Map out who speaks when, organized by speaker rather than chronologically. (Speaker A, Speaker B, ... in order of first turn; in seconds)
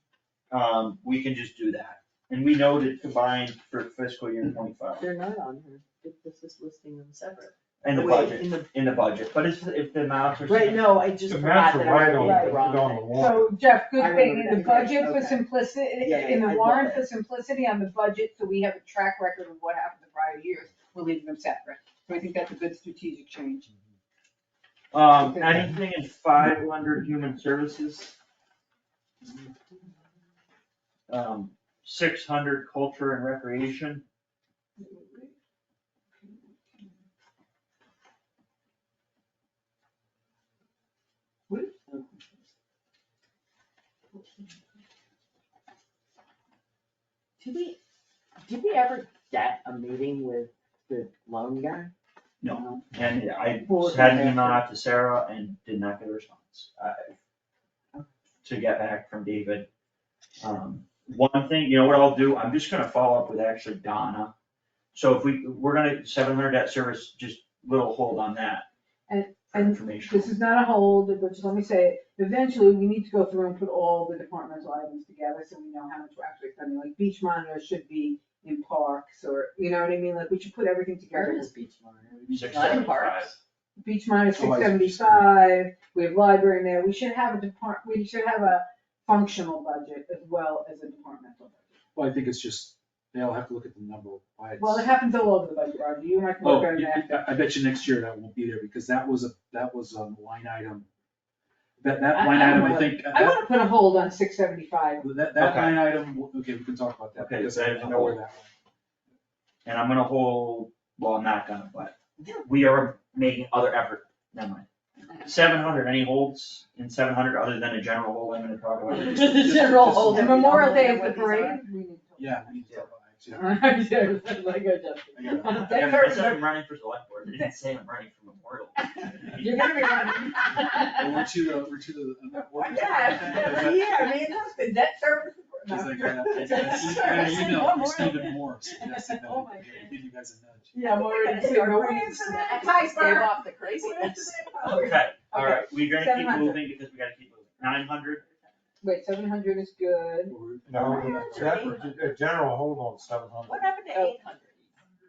Speaker A: 0.5-5.1, 7.8-10.9, 24.9-28.1, 31.1-34.0, 52.4-57.1, 58.4-59.7, 60.4-64.3, 64.9-68.7, 69.5-70.3, 82.3-83.3, 105.4-105.8, 107.2-108.2, 109.7-114.7, 115.2-119.5, 125.5-130.0, 144.6-148.2
Speaker B: 5.0-8.5, 10.5-13.3, 13.9-17.1, 47.4-47.8, 48.4-51.9, 53.6-54.6, 81.1-83.4, 112.2-112.4, 118.9-121.6, 123.9-125.4, 133.3-134.4, 136.3-139.9, 140.7-144.9, 147.6-148.8, 150.8-152.2, 153.4-154.7
Speaker C: 11.2-13.5, 150.7-153.7
Speaker D: 12.1-23.7, 25.2-25.7, 34.8-35.3, 36.2-36.9, 69.1-81.5, 83.8-91.8, 94.6-97.2, 102.1-105.1, 120.0-122.8, 123.3-124.2, 125.4-126.5, 129.3-131.2, 132.5-138.0, 140.7-146.6, 148.8-151.4
Speaker E: 82.3-82.9, 84.3-85.3, 91.9-94.9, 96.4-100.9, 101.8-103.5, 105.0-108.5, 119.2-120.4, 122.2-123.5, 125.1-126.4, 130.7-134.0, 135.7-141.0, 150.3-151.9